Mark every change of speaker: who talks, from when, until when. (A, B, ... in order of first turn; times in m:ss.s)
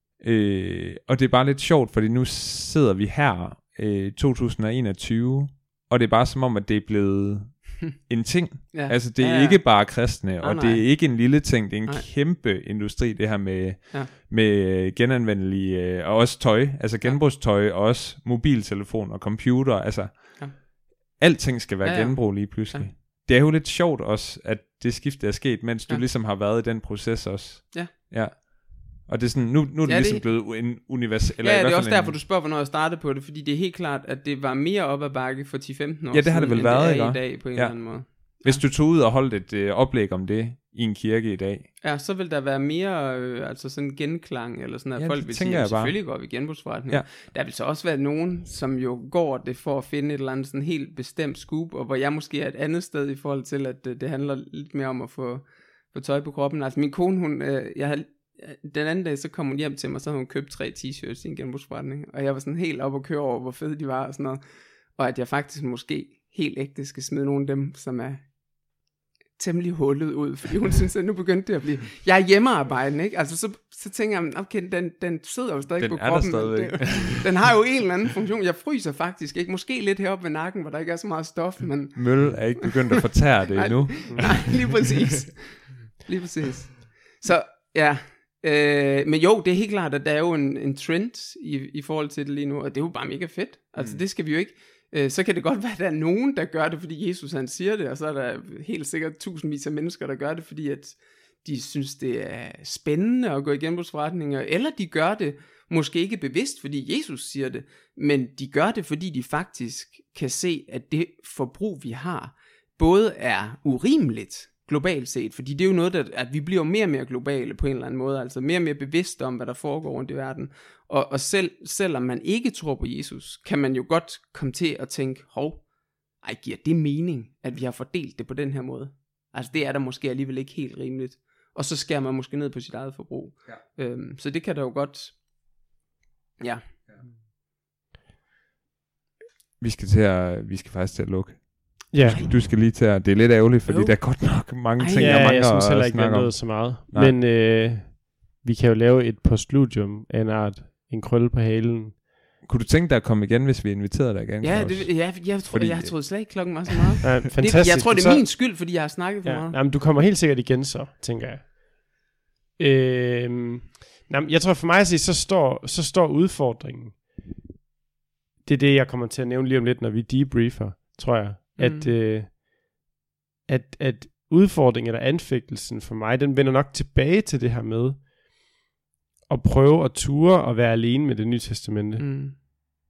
0:00.2-0:32.2 A
0:08.7-0:12.1 B
0:21.8-0:22.9 B
0:29.8-0:30.8 B
0:31.4-0:38.6 B
0:36.1-0:41.7 A
0:41.8-1:04.4 B
0:45.0-0:46.3 A
1:04.9-1:08.3 B
1:09.4-1:22.8 B
1:15.8-1:17.5 A
1:21.9-1:24.9 A
1:23.5-2:05.7 B
1:24.1-1:24.4 C
1:33.8-1:34.0 A
2:06.2-2:15.2 B
2:16.4-2:16.6 B
2:19.6-2:27.2 A
2:21.9-2:22.2 C
2:22.0-2:22.5 B
2:23.6-2:25.3 B
2:24.9-2:32.0 C
2:32.4-2:36.7 A
2:34.4-2:39.6 B
2:37.0-2:41.6 C
2:42.6-2:47.2 C
2:48.4-2:52.4 C
2:51.6-2:51.9 B
2:53.4-2:58.1 C
2:59.3-3:02.4 C
3:02.0-3:02.4 B